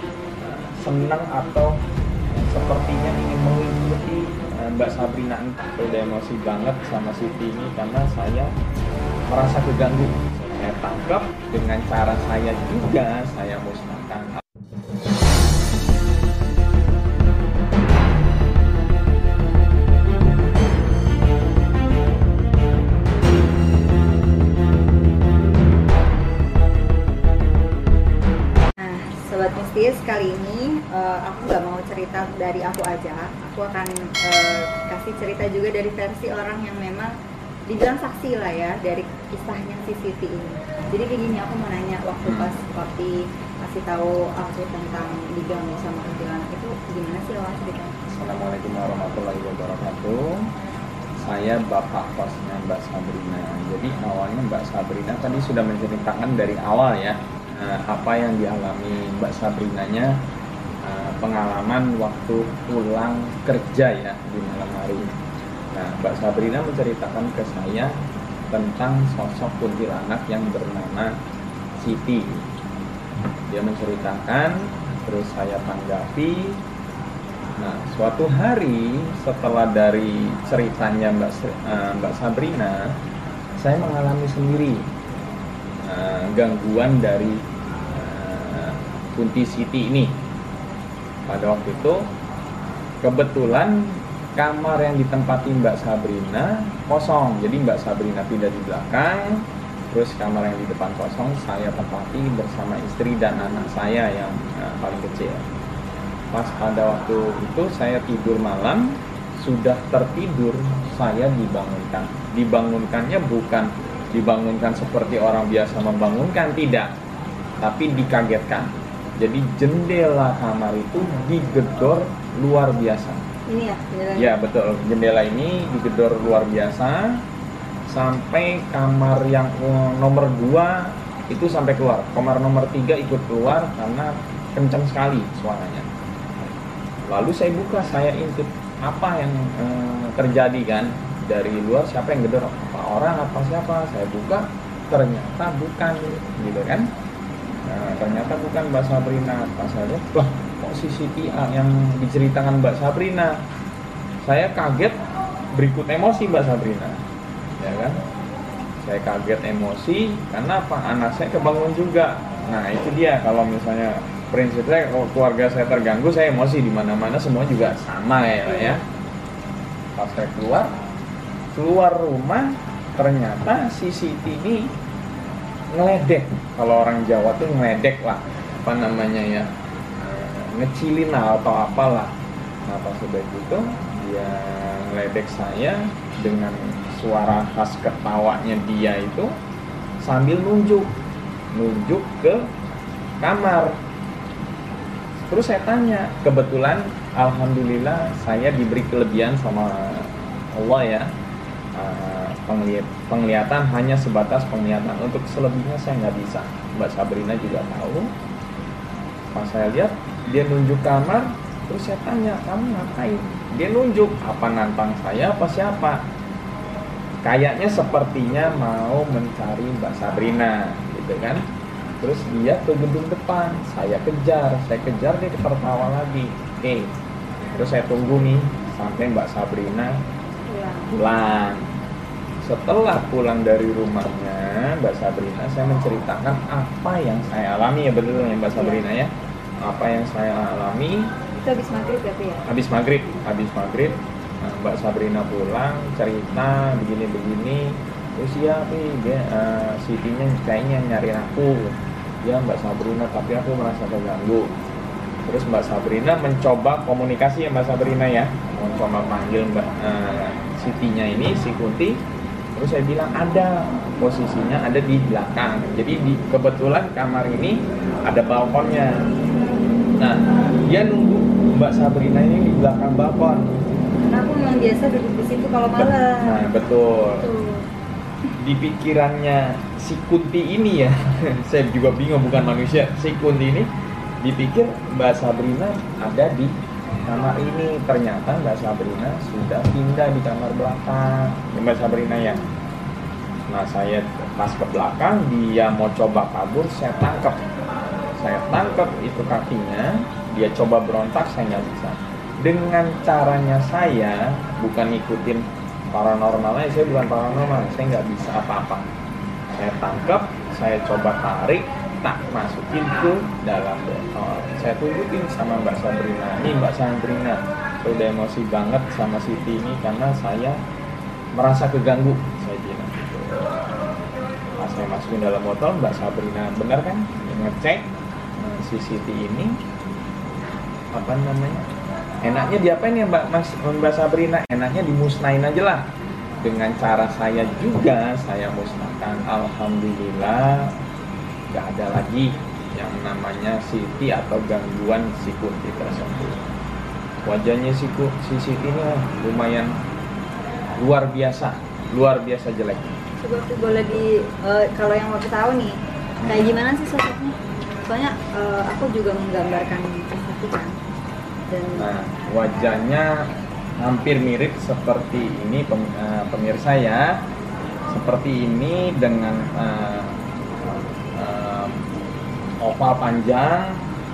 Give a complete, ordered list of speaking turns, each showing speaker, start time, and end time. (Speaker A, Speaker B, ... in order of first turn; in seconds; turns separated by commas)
Speaker A: 0.4-8.5, Speaker A: 9.3-14.4, Speaker B: 28.8-37.1, Speaker B: 37.7-47.9, Speaker A: 42.2-42.5, Speaker A: 48.1-50.5, Speaker A: 51.2-60.1, Speaker A: 60.8-65.1, Speaker A: 65.7-67.9, Speaker A: 68.5-71.1, Speaker A: 71.8-72.5, Speaker A: 73.5-76.6, Speaker A: 77.6-83.0, Speaker A: 83.6-84.9, Speaker A: 85.8-90.1, Speaker A: 91.3-92.1, Speaker A: 93.0-105.5, Speaker A: 106.3-116.9, Speaker A: 117.6-123.2, Speaker B: 123.5-124.3, Speaker A: 124.2-127.2, Speaker A: 127.9-135.9, Speaker A: 137.1-146.9, Speaker A: 147.6-153.4, Speaker A: 154.2-155.0, Speaker A: 155.5-157.0, Speaker A: 157.6-158.0, Speaker A: 158.8-168.8, Speaker B: 168.4-168.8, Speaker A: 169.9-170.7, Speaker A: 171.5-174.7, Speaker A: 175.7-182.1, Speaker A: 182.7-189.3, Speaker A: 190.0-190.9, Speaker A: 191.5-192.4, Speaker A: 193.2-193.8, Speaker A: 195.2-201.1, Speaker A: 201.7-208.1, Speaker A: 209.3-216.0, Speaker A: 217.2-221.4, Speaker A: 222.0-226.9, Speaker A: 227.6-230.0, Speaker B: 230.5-230.9, Speaker A: 230.9-231.7, Speaker A: 232.4-241.1, Speaker B: 238.5-238.9, Speaker B: 241.4-242.4, Speaker A: 242.4-254.5, Speaker A: 255.2-262.0, Speaker A: 262.6-269.0, Speaker A: 270.0-273.6, Speaker B: 274.0-276.4, Speaker A: 275.8-277.2, Speaker B: 277.0-277.6, Speaker A: 278.4-283.7, Speaker A: 284.2-286.5, Speaker A: 287.0-292.4, Speaker A: 293.5-297.4, Speaker A: 298.2-308.9, Speaker A: 309.5-320.6, Speaker A: 321.3-323.4, Speaker A: 324.6-329.6, Speaker A: 330.9-331.6, Speaker A: 332.2-335.9, Speaker A: 336.4-340.7, Speaker A: 341.5-346.4, Speaker A: 347.2-349.7, Speaker A: 350.8-353.0, Speaker B: 353.2-360.7, Speaker A: 356.2-356.5, Speaker B: 361.5-361.9, Speaker A: 361.8-363.1, Speaker A: 363.8-367.1, Speaker A: 367.9-371.8, Speaker A: 372.6-373.8